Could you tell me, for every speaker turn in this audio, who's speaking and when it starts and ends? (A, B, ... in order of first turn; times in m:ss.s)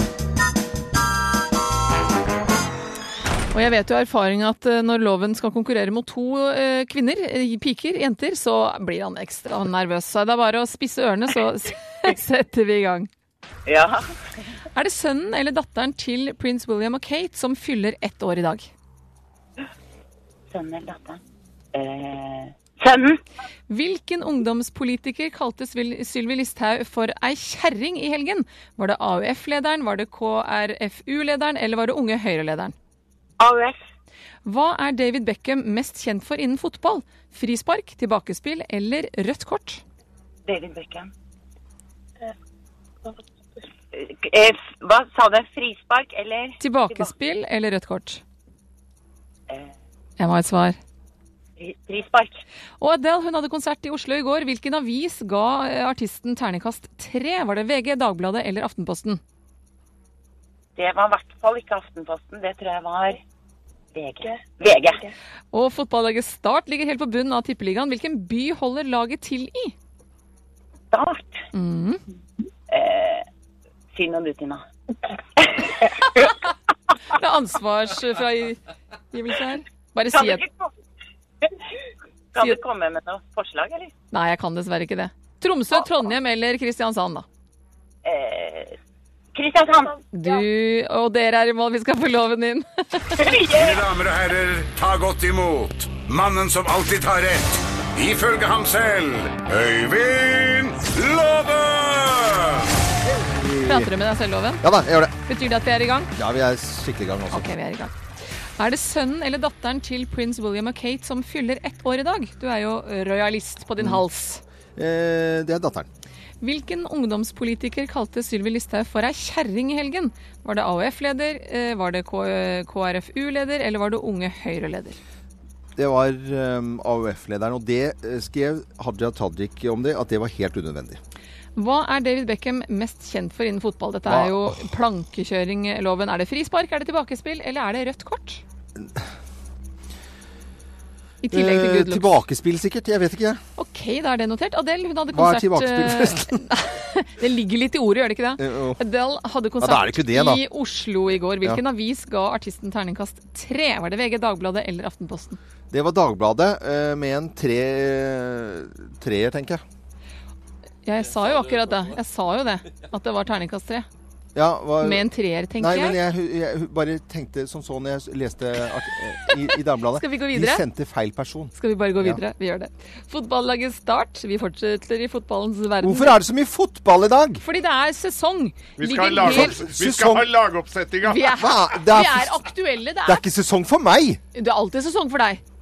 0:03.5-0:13.1 A
0:13.7-0:14.0 B
0:14.7-0:18.7 A
0:20.5-0:21.2 B
0:21.7-0:23.2 B
0:23.7-0:32.7 A
0:33.4-0:33.8 B
0:34.4-0:39.8 A
0:40.4-0:41.1 B
0:43.9-0:47.1 B
0:46.6-0:48.2 A
0:50.2-0:50.8 A
0:51.6-0:52.4 B
0:52.8-0:59.2 A
1:00.8-1:03.2 B
1:03.9-1:05.0 B
1:05.5-1:09.7 A
1:10.9-1:11.4 B
1:11.5-1:12.0 A
1:12.7-1:13.2 B
1:13.9-1:14.6 B
1:15.6-1:16.2 B
1:17.1-1:18.6 A
1:19.1-1:20.4 A
1:20.1-1:20.7 B
1:22.3-1:23.9 B
1:24.1-1:27.2 A
1:28.0-1:28.7 B
1:29.3-1:30.0 B
1:30.1-1:33.2 A
1:33.2-1:33.9 B
1:33.4-1:42.6 C
1:43.1-1:43.9 D
1:43.6-1:44.6 A
1:44.6-1:45.1 D
1:45.2-1:46.1 A
1:46.2-1:47.5 D
1:47.3-1:47.9 A
1:48.6-1:54.4 A
1:54.8-1:55.9 D
1:56.4-2:05.0 A
2:05.8-2:11.0 D
2:11.6-2:18.4 A
2:14.1-2:14.6 D
2:18.8-2:19.0 D
2:21.2-2:22.1 A
2:21.3-2:23.4 D
2:23.6-2:35.4 A
2:25.1-2:26.4 D
2:28.4-2:28.8 D
2:29.6-2:30.4 D
2:35.7-2:39.6 D
2:40.8-2:43.8 A
2:44.3-2:52.2 D
2:44.8-2:46.0 A
2:49.9-2:50.6 A
2:51.5-2:56.2 A
2:55.8-2:57.4 D
2:57.4-2:59.6 A
2:58.8-3:01.3 E
2:59.2-3:00.3 D
3:01.0-3:03.2 A
3:01.2-3:02.5 D
3:03.0-3:04.2 D
3:04.3-3:05.4 A